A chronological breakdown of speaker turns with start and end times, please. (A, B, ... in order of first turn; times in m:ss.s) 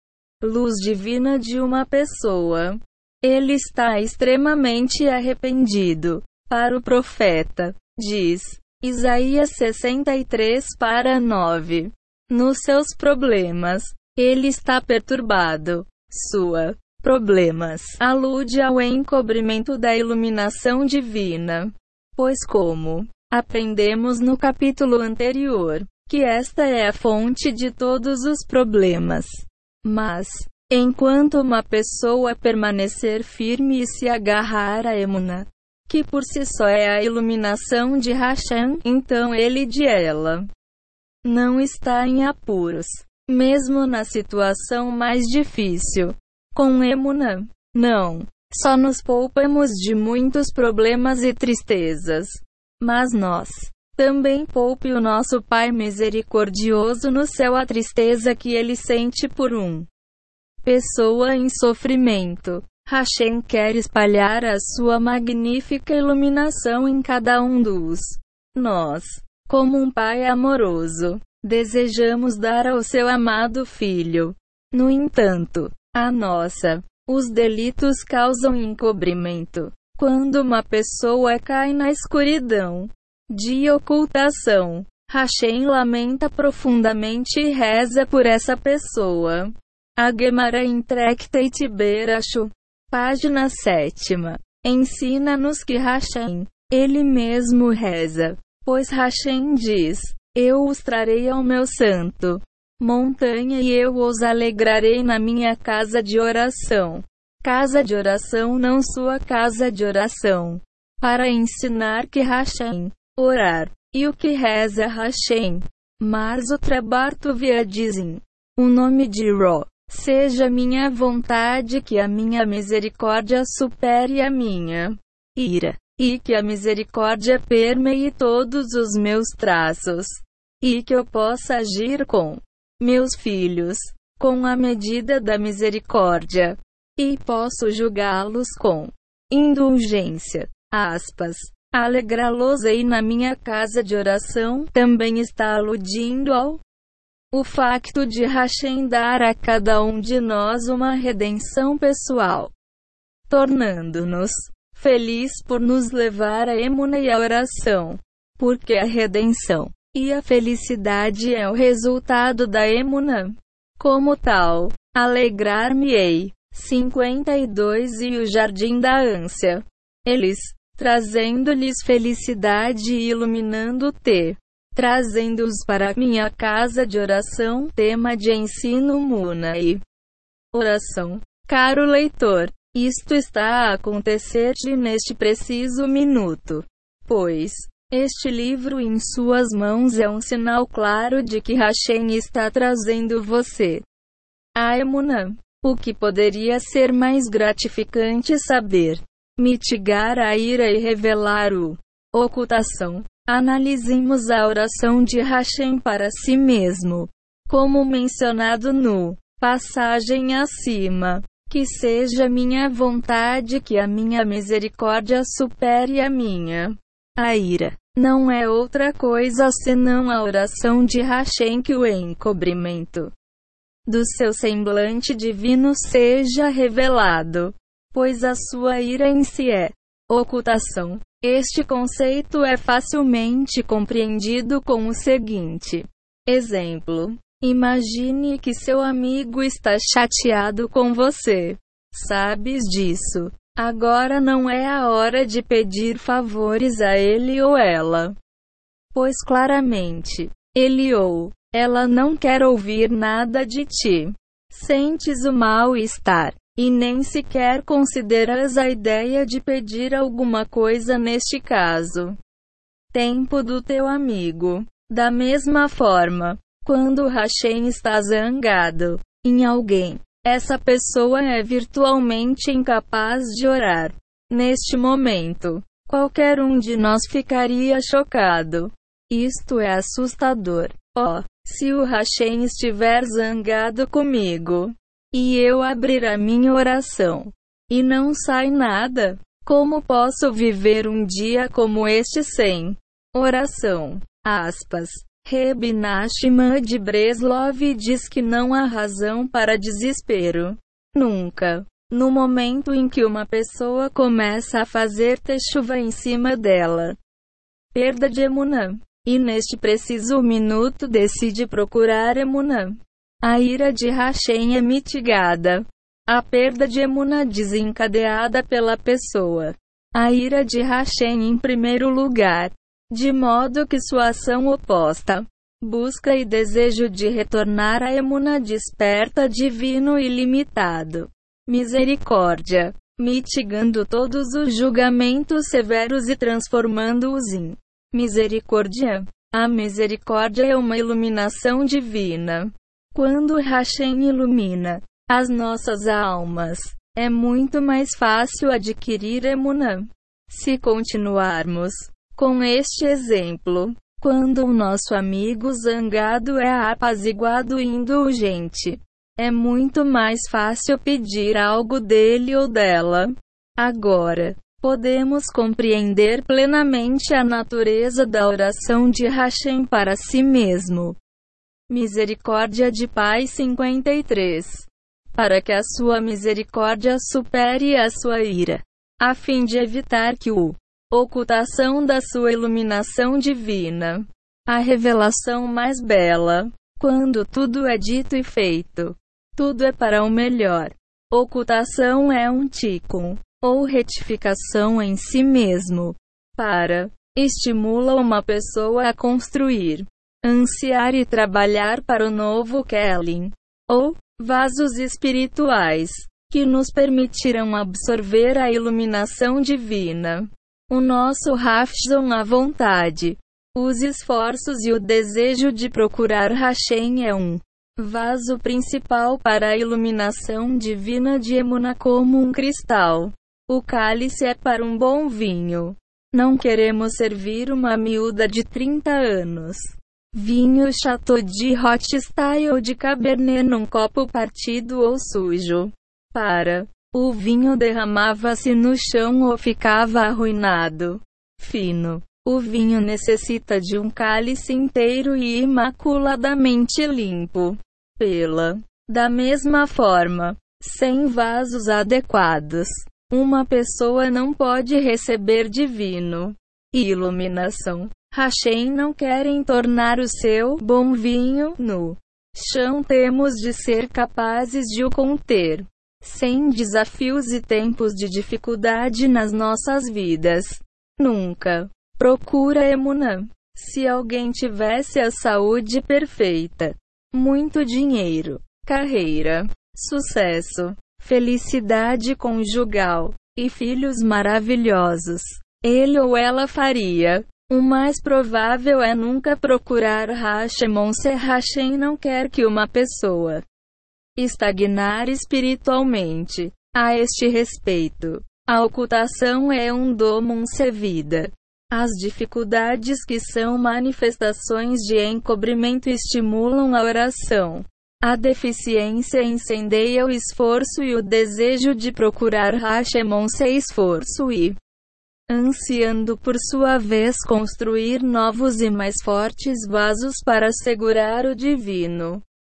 0:00.4-0:40.5 A
0:41.2-0:59.9 A
1:00.6-2:26.6 A
2:27.3-2:32.5 A
2:33.3-2:59.8 A
3:00.5-3:13.8 A
3:14.6-3:43.1 A
3:43.8-4:08.1 A
4:08.9-4:22.2 A
4:22.9-5:07.0 A
5:07.7-6:11.0 A
6:11.7-8:13.4 A
8:14.2-8:34.6 A
8:35.3-8:42.2 A